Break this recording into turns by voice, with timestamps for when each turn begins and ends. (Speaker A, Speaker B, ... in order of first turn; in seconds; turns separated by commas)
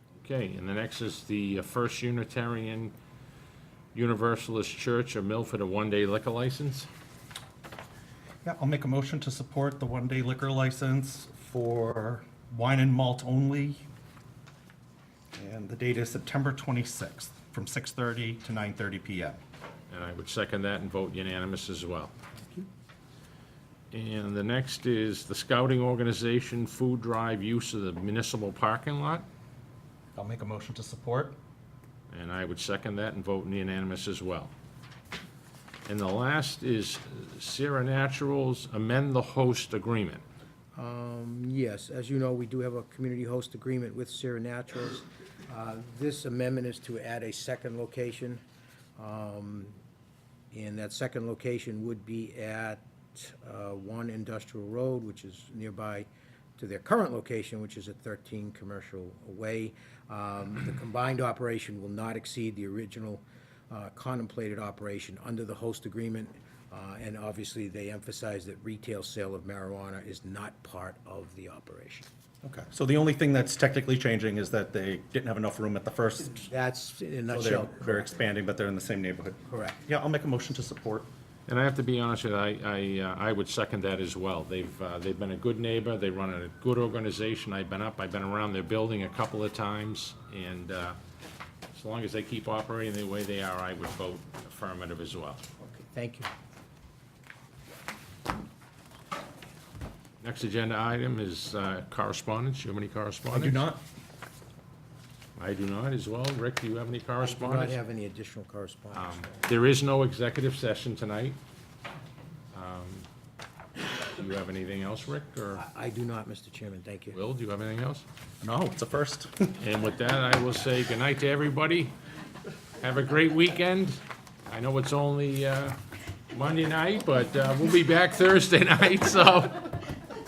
Speaker A: 0.2-2.9, Speaker A: 3.9-6.9, Speaker B: 8.4-13.8, Speaker B: 15.3-19.4, Speaker A: 19.9-22.1, Speaker A: 23.9-29.2, Speaker B: 30.1-31.4, Speaker A: 32.1-34.5, Speaker A: 35.9-40.2, Speaker C: 40.8-48.4, Speaker C: 49.0-49.7, Speaker C: 50.5-72.1, Speaker B: 72.4-76.5, Speaker C: 76.3-78.2, Speaker B: 77.3-81.1, Speaker C: 79.5-79.8, Speaker A: 81.5-91.0, Speaker A: 91.7-95.4, Speaker C: 95.6-96.3, Speaker A: 100.2-103.6, Speaker B: 103.3-103.8, Speaker A: 105.4-107.8, Speaker C: 107.2-109.3, Speaker A: 108.9-111.4, Speaker A: 112.5-113.1, Speaker A: 114.0-115.6, Speaker C: 115.5-117.2, Speaker A: 117.1-118.0, Speaker B: 118.4-119.5, Speaker A: 119.6-121.9, Speaker A: 122.8-125.8, Speaker A: 126.3-129.8